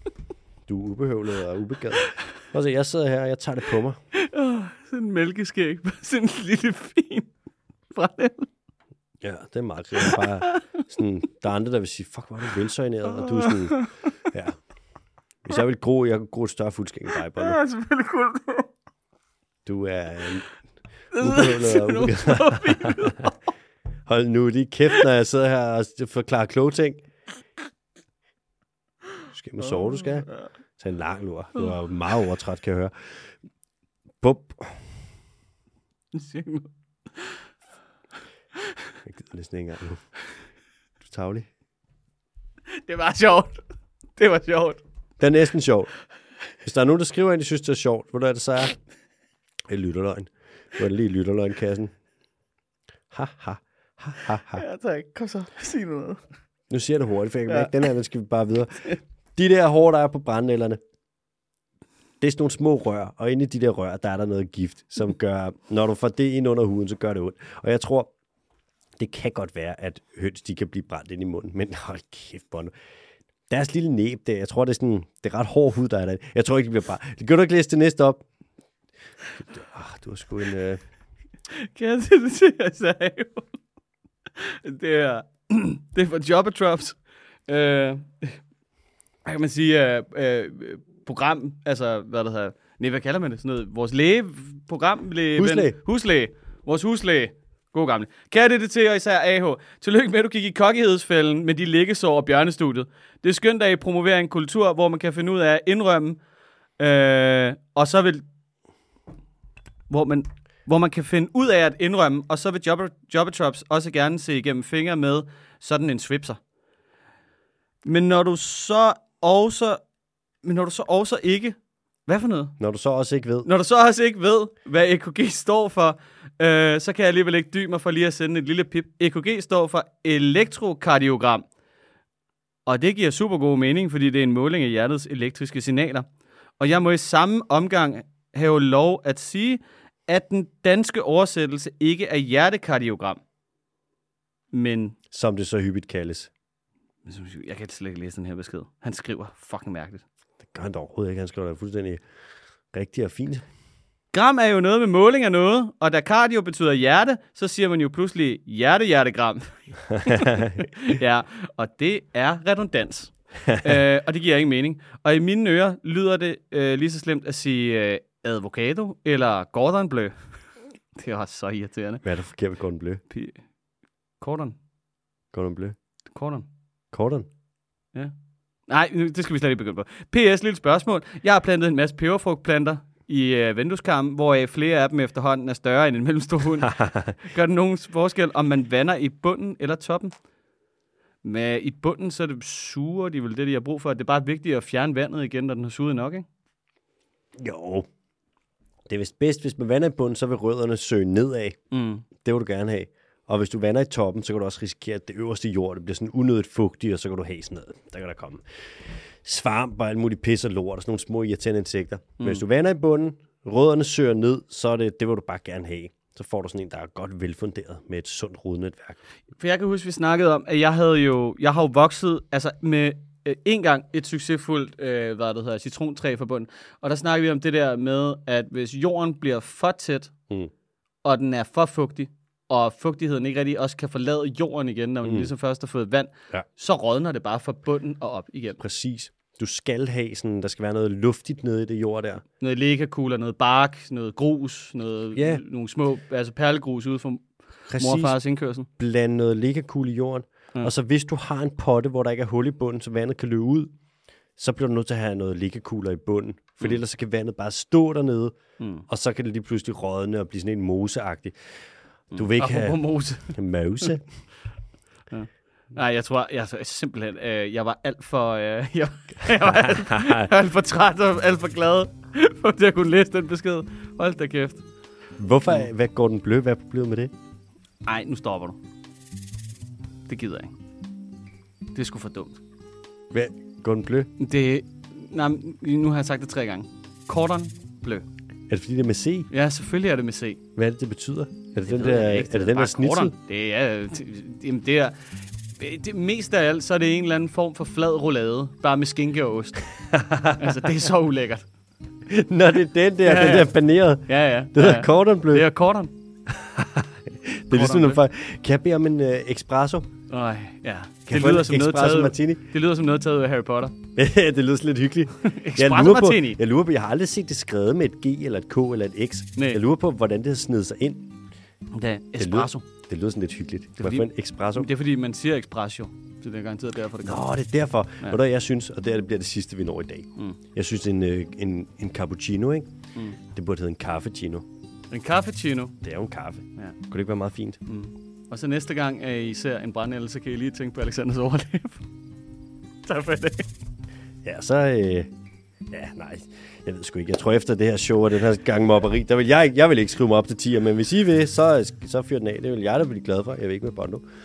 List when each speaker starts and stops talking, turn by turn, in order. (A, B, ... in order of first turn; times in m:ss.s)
0:00.7-0:04.0 A
0:04.1-0:07.3 B
0:07.9-0:08.5 B
0:09.2-0:14.6 A
0:10.0-0:10.8 B
0:13.1-0:14.1 B
0:15.4-0:17.6 A
0:17.4-0:18.7 B
0:19.7-0:20.5 A
0:21.1-0:23.5 B
0:21.2-0:23.3 A
0:24.1-0:27.0 A
0:29.3-0:32.9 A
0:30.0-0:30.4 B
0:34.2-0:34.8 A
0:36.1-0:37.4 B
0:39.0-0:40.0 A
0:41.0-0:41.5 A
0:42.7-0:43.6 B
0:44.2-0:44.8 B
0:45.2-0:45.9 A
0:46.6-0:48.8 A
0:49.7-0:51.9 A
0:53.1-0:54.6 A
0:54.5-0:56.2 B
0:56.7-1:00.8 A
0:57.5-0:57.8 B
1:02.2-1:08.1 A
1:09.0-1:12.7 A
1:13.5-1:18.2 A
1:19.5-1:20.8 A
1:21.5-1:23.5 B
1:24.4-1:27.0 B
1:27.5-1:28.4 B
1:29.3-1:46.2 B
1:35.4-1:35.8 A
1:46.8-1:48.2 B
1:49.9-1:56.4 B
1:57.8-1:59.8 B
2:00.4-2:01.6 B
2:02.1-2:02.6 B
2:02.6-2:03.5 A
2:03.4-2:11.5 B
2:12.7-2:16.1 B
2:16.6-2:23.2 B
2:24.5-2:25.0 B
2:25.1-2:26.3 A
2:27.1-2:30.0 B
2:30.4-2:32.0 A
2:32.7-2:33.5 A
2:34.1-2:50.2 B
2:39.9-2:40.7 A
2:51.0-2:52.0 B
2:52.0-2:53.0 A
2:53.1-2:53.4 B
2:54.2-2:54.6 B
2:55.3-2:55.8 A
2:56.1-2:56.5 B
2:56.9-2:57.3 A
2:58.7-3:10.1 B
3:06.6-3:07.1 A
3:11.2-3:16.3 B
3:17.4-3:17.9 A
3:18.9-3:21.6 A
3:21.7-3:22.1 B
3:22.2-3:39.0 A
3:39.4-3:50.1 B
3:51.0-3:58.6 B
3:55.0-3:55.3 A
3:58.6-4:02.2 A
4:02.4-4:08.7 B
4:05.2-4:05.4 A
4:07.7-4:08.2 A
4:08.8-4:13.7 A
4:14.4-4:18.4 A
4:18.6-4:18.8 B
4:18.9-4:21.5 A
4:22.1-4:23.9 B
4:22.1-4:24.0 A
4:25.1-4:34.6 B
4:29.5-4:30.3 A
4:35.2-4:37.1 A
4:37.8-4:38.6 B
4:40.1-4:40.5 B
4:41.8-4:42.4 B
4:43.1-4:44.1 A
4:44.2-4:48.1 B
4:48.5-4:49.3 A
4:49.3-4:50.4 B
4:50.6-4:53.2 A
4:51.6-4:55.0 B
4:55.6-4:59.6 B
4:59.9-5:00.6 A
5:00.4-5:01.5 B
5:02.1-5:05.5 A
5:03.0-5:03.5 B
5:04.1-5:05.9 B
5:06.3-5:09.9 A
5:07.5-5:08.0 B
5:10.1-5:13.8 B
5:11.1-5:12.4 A
5:14.0-5:21.1 A
5:15.2-5:16.4 B
5:21.7-5:22.6 B
5:22.2-5:24.7 A
5:23.8-5:27.2 B
5:27.0-5:32.7 A
5:33.3-5:34.5 A
5:34.9-5:35.8 B
5:35.8-5:37.6 A
5:37.7-5:41.8 B
5:42.9-5:43.5 B
5:44.2-5:45.1 A
5:45.7-5:54.0 A